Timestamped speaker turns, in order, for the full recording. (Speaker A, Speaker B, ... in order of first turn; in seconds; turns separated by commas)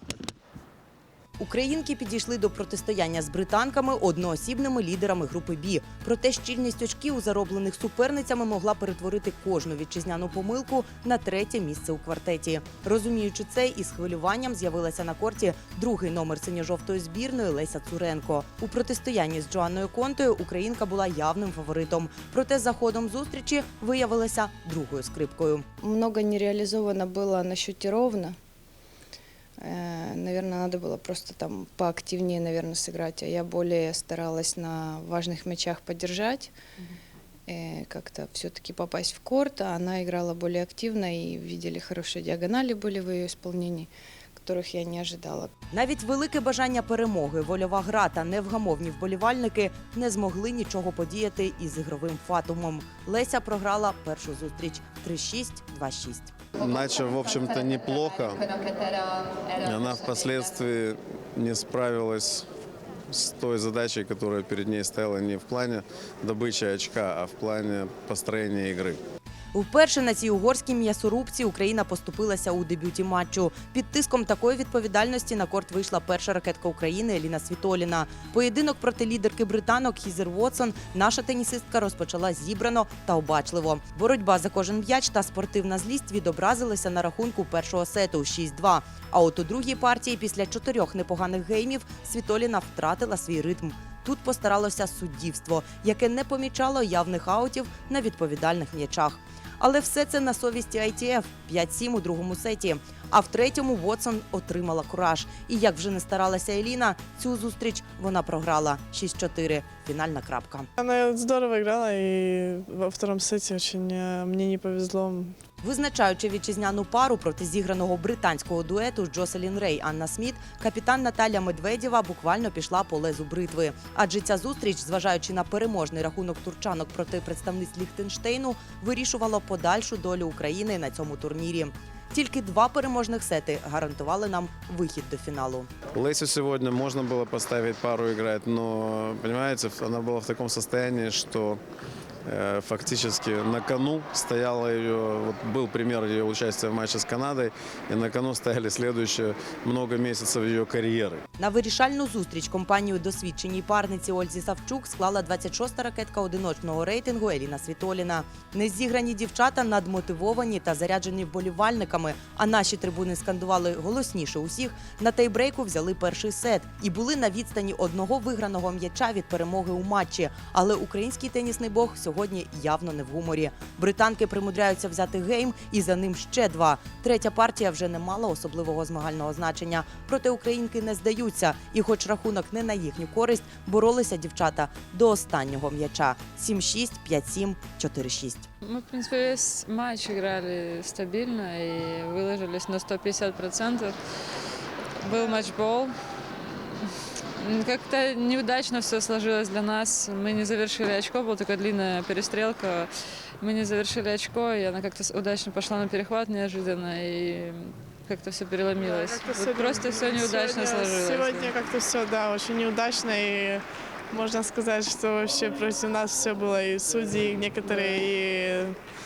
Speaker A: 1.4-25.7, Speaker B: 25.8-28.4, Speaker B: 29.6-36.5, Speaker B: 37.5-45.5, Speaker A: 45.7-56.3, Speaker C: 56.6-58.5, Speaker C: 59.5-62.5, Speaker C: 63.1-69.0, Speaker A: 69.5-110.7, Speaker D: 110.8-115.3, Speaker A: 115.6-135.7, Speaker C: 135.9-141.6, Speaker C: 142.2-151.2, Speaker A: 151.4-188.5, Speaker E: 188.6-193.9, Speaker E: 195.0-211.5, Speaker D: 208.8-218.8, Speaker E: 217.7-218.0